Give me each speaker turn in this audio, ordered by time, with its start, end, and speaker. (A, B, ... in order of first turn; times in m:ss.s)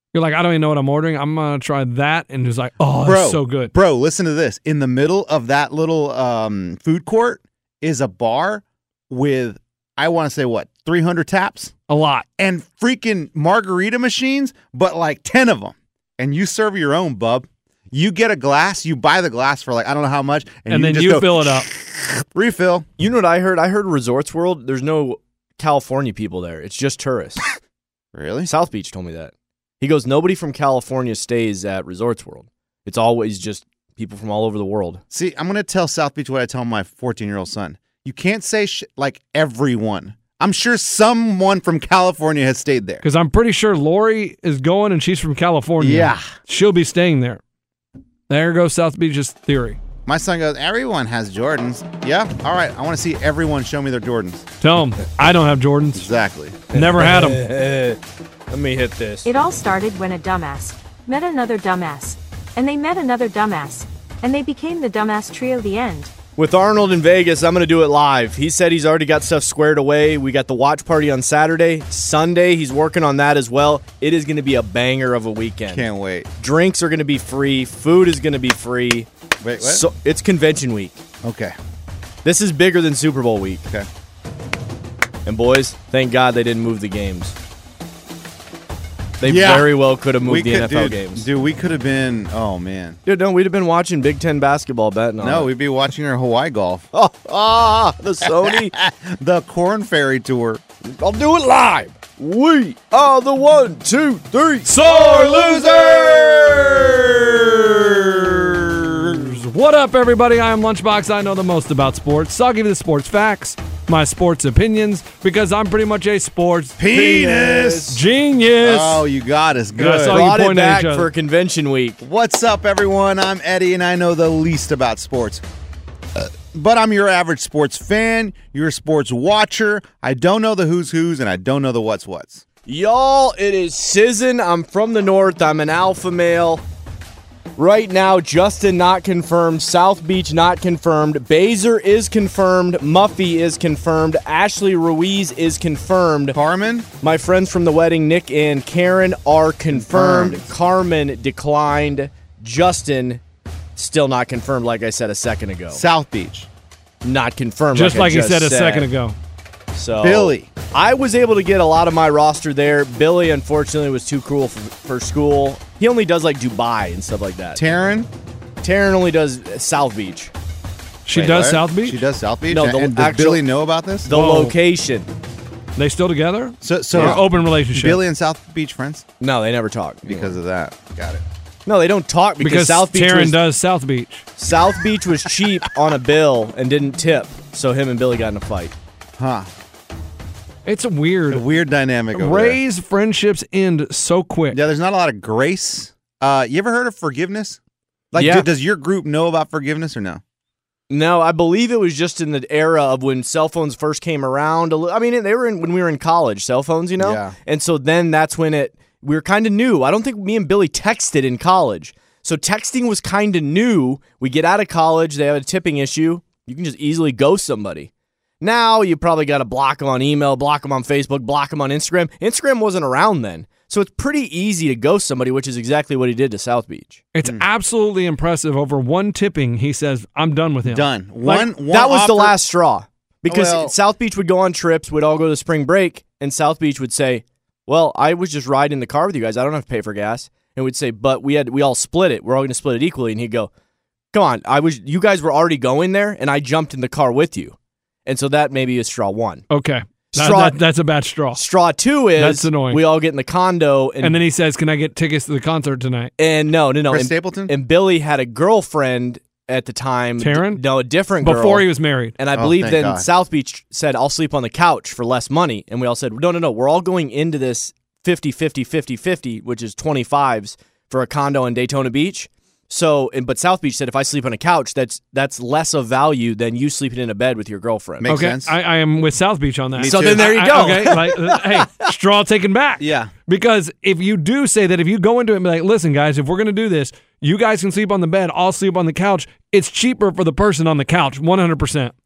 0:00.1-0:03.7 A
0:03.0-0:11.7 B
0:11.9-0:12.3 A
0:12.4-0:22.9 B
0:20.7-0:21.7 A
0:23.0-0:27.4 C
0:28.1-0:28.5 B
0:28.5-0:35.0 C
0:35.1-0:43.0 B
0:43.0-0:47.4 A
0:45.8-0:46.3 B
0:48.3-0:49.8 A
0:50.1-0:54.5 B
0:54.6-0:56.1 A
0:56.0-0:56.6 B
0:56.7-0:58.0 C
0:56.7-0:57.4 A
0:58.5-0:59.3 C
0:59.2-1:06.1 D
1:06.4-1:15.9 C
1:15.7-1:16.3 B
1:16.4-1:19.1 C
1:19.4-1:19.8 B
1:19.6-1:21.0 C
1:21.2-1:21.6 B
1:22.2-1:23.6 C
1:25.3-1:27.4 C
1:29.2-1:31.3 C
1:29.2-1:33.0 B
1:33.1-1:35.5 C
1:35.2-1:36.9 B
1:36.9-1:38.8 C
1:38.2-1:40.6 B
1:40.8-1:46.8 C
1:44.7-1:45.1 A
1:44.8-1:49.2 B
1:49.2-1:56.8 A
1:56.8-1:58.0 B
1:56.9-1:58.0 C
1:57.9-1:59.1 A
1:58.6-2:00.3 B
1:59.8-2:01.1 A
2:00.1-2:02.0 C
2:02.0-2:05.4 B
2:06.2-2:12.4 B
2:12.7-2:16.6 C
2:17.6-2:26.4 C
2:26.3-2:26.9 B
2:27.0-2:33.2 C
2:29.7-2:30.4 B
2:33.8-2:35.8 C
2:35.7-2:36.5 B
2:37.0-2:38.9 C
2:37.8-2:39.2 A
2:39.7-2:47.6 C
2:40.0-2:40.5 B
2:47.6-2:48.1 B
2:48.6-2:50.3 C
2:51.1-2:52.0 A
2:51.1-2:54.1 B
2:52.5-2:53.4 C
2:54.0-2:55.1 C
2:54.1-2:54.6 A
2:55.8-2:58.0 A
2:56.6-2:59.0 B
2:57.0-2:57.2 C
2:59.2-3:00.4 C
3:00.0-3:01.2 B
3:01.7-3:03.4 C
3:02.4-3:04.2 A
3:04.4-3:08.8 C
3:09.2-3:09.5 B
3:10.6-3:11.4 A
3:11.3-3:12.6 B
3:12.1-3:14.6 A
3:14.5-3:17.6 B
3:18.1-3:18.5 C
3:18.1-3:20.2 B
3:20.9-3:47.0 C
3:27.0-3:27.4 B
3:47.1-3:51.3 A
3:50.6-3:52.4 B
3:51.3-4:03.5 C
3:53.3-3:53.8 B
4:04.1-4:09.5 C
4:09.5-4:11.4 A
4:10.1-4:10.6 C
4:11.4-4:14.2 C
4:12.2-4:12.8 A
4:14.0-4:16.1 A
4:16.2-4:21.7 C
4:16.9-4:17.5 B
4:20.2-4:20.6 A
4:21.2-4:22.2 A
4:22.2-4:38.1 C
4:22.3-4:23.1 B
4:38.0-4:38.6 B
4:38.1-4:51.9 A
4:39.8-4:40.9 B
4:39.8-4:41.9 C
4:42.8-4:43.1 B